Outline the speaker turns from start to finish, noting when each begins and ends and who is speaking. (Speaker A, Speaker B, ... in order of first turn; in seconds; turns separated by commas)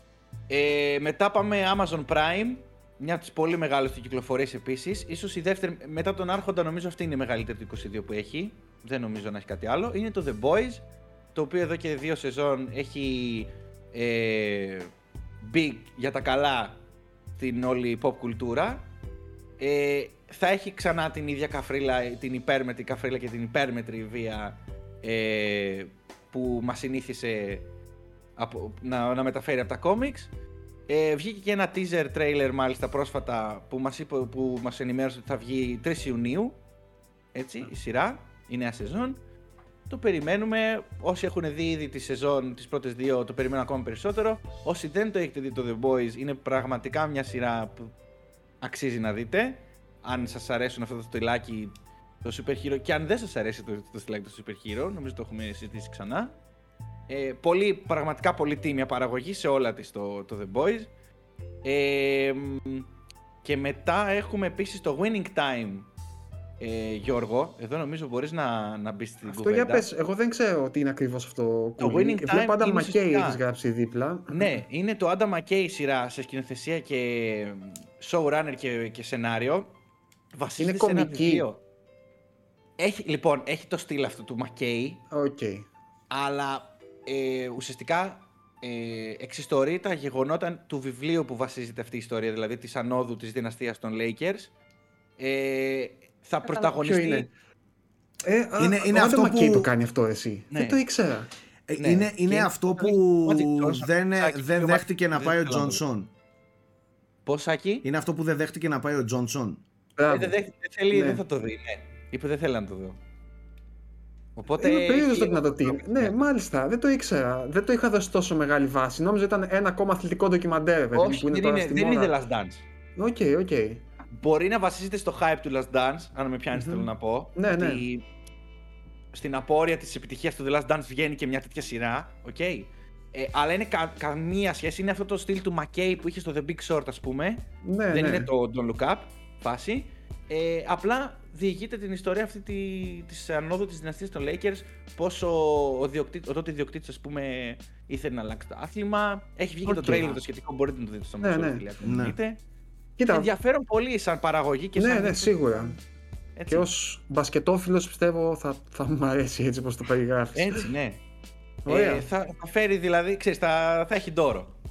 Speaker A: 0.5-16.8, Speaker A: 17.4-18.9, Speaker A: 19.6-27.7, Speaker A: 28.4-30.3, Speaker A: 30.9-36.6, Speaker A: 37.3-39.2, Speaker A: 39.9-47.9, Speaker A: 48.6-56.4, Speaker A: 57.1-60.9, Speaker A: 61.6-62.9, Speaker A: 63.4-65.9, Speaker A: 66.6-69.9, Speaker B: 69.3-74.5, Speaker A: 71.8-73.4, Speaker A: 74.3-79.7, Speaker A: 80.3-81.6, Speaker B: 80.6-81.5, Speaker A: 82.8-85.0, Speaker B: 85.1-85.7, Speaker A: 86.1-94.5, Speaker A: 95.2-97.3, Speaker B: 96.4-97.3, Speaker B: 98.2-101.3, Speaker C: 98.6-99.7, Speaker A: 100.5-100.8, Speaker C: 101.7-106.1, Speaker A: 101.8-105.8, Speaker A: 107.2-107.8, Speaker C: 107.8-109.6, Speaker B: 110.0-111.2, Speaker A: 110.1-113.0, Speaker A: 114.4-116.2, Speaker B: 114.6-122.2, Speaker A: 120.9-122.6, Speaker B: 123.0-123.8, Speaker A: 124.2-128.0, Speaker B: 126.5-127.8, Speaker A: 129.1-152.4, Speaker B: 137.7-138.3, Speaker B: 149.7-150.2, Speaker B: 151.2-151.6, Speaker C: 151.8-152.2, Speaker B: 153.0-153.3, Speaker A: 153.1-155.8, Speaker B: 154.8-155.8, Speaker A: 156.4-156.7, Speaker B: 156.5-160.7, Speaker A: 160.3-161.0, Speaker B: 161.7-162.3, Speaker A: 161.7-164.5